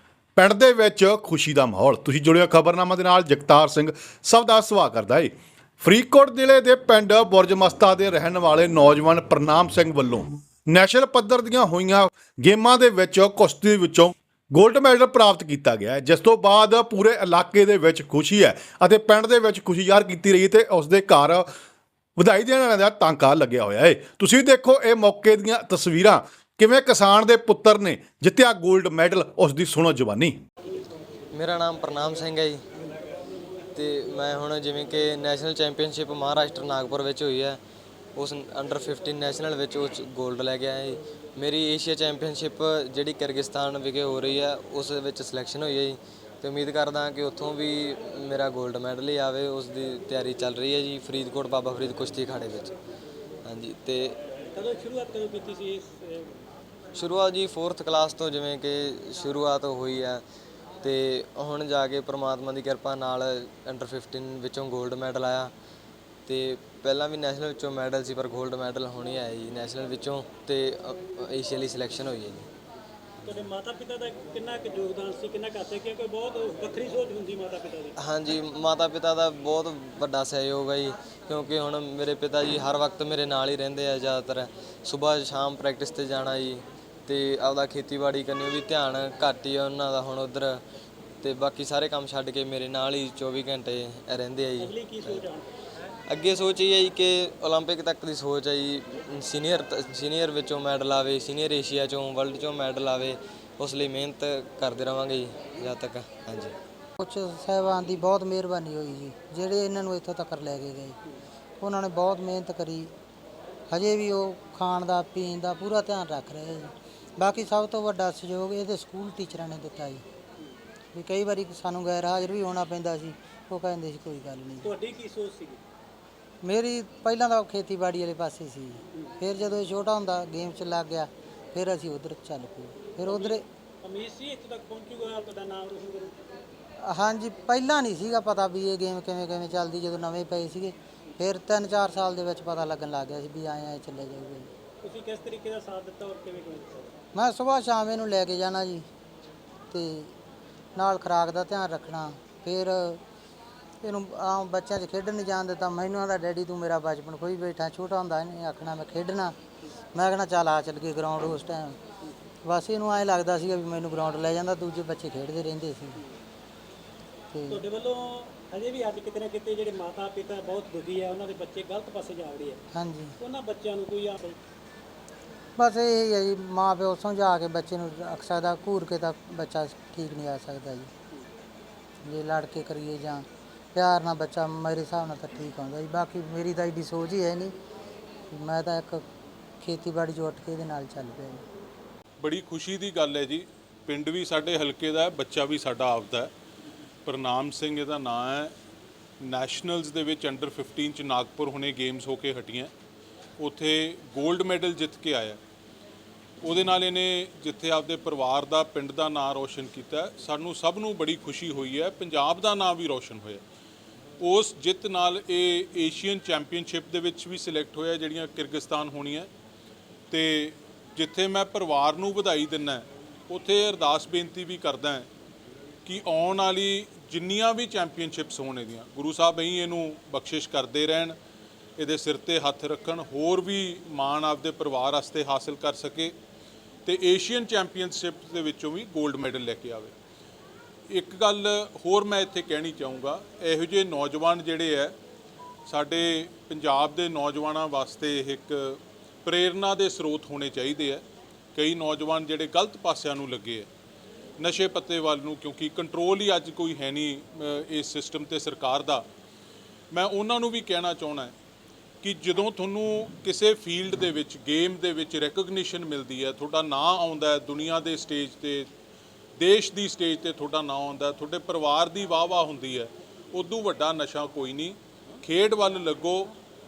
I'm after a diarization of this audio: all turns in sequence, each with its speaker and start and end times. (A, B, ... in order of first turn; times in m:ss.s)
0:00.4-0:21.5 A
0:22.2-0:30.4 A
0:31.3-0:32.6 B
0:33.7-0:37.6 B
0:38.1-0:52.7 B
0:53.4-0:54.2 B
0:54.6-0:56.3 C
0:56.9-1:00.2 B
1:00.8-1:05.5 B
1:06.2-1:12.5 B
1:13.3-1:17.9 C
1:18.0-1:30.6 B
1:31.2-1:35.3 B
1:34.6-1:35.5 C
1:36.1-1:46.5 B
1:47.0-1:51.0 D
1:51.6-1:52.9 D
1:53.7-2:00.0 D
2:00.9-2:04.7 D
2:04.6-2:05.6 C
2:06.4-2:13.4 D
2:13.1-2:16.2 C
2:16.8-2:24.5 D
2:24.8-2:26.9 C
2:27.1-2:28.9 D
2:29.7-2:30.1 D
2:30.7-2:33.0 D
2:33.8-2:39.4 D
2:39.9-2:41.8 D
2:42.4-2:46.0 D
2:47.3-2:47.6 D
2:47.5-2:52.6 C
2:52.7-2:53.2 D
2:53.2-2:54.4 C
2:55.6-3:00.9 D
3:02.0-3:07.5 D
3:08.3-3:09.0 D
3:09.6-3:11.4 D
3:12.2-3:16.3 E
3:17.0-3:18.5 E
3:19.2-3:22.7 E
3:23.4-3:25.4 E
3:26.4-3:33.4 E
3:34.2-3:39.3 E
3:40.1-3:45.1 E
3:45.8-3:51.1 E
3:51.8-3:56.1 E
3:56.8-3:59.9 E
4:00.9-4:04.9 E
4:05.7-4:11.0 E
4:11.5-4:13.7 E
4:14.4-4:19.0 E
4:19.9-4:21.3 E
4:22.0-4:28.7 E
4:29.4-4:36.3 E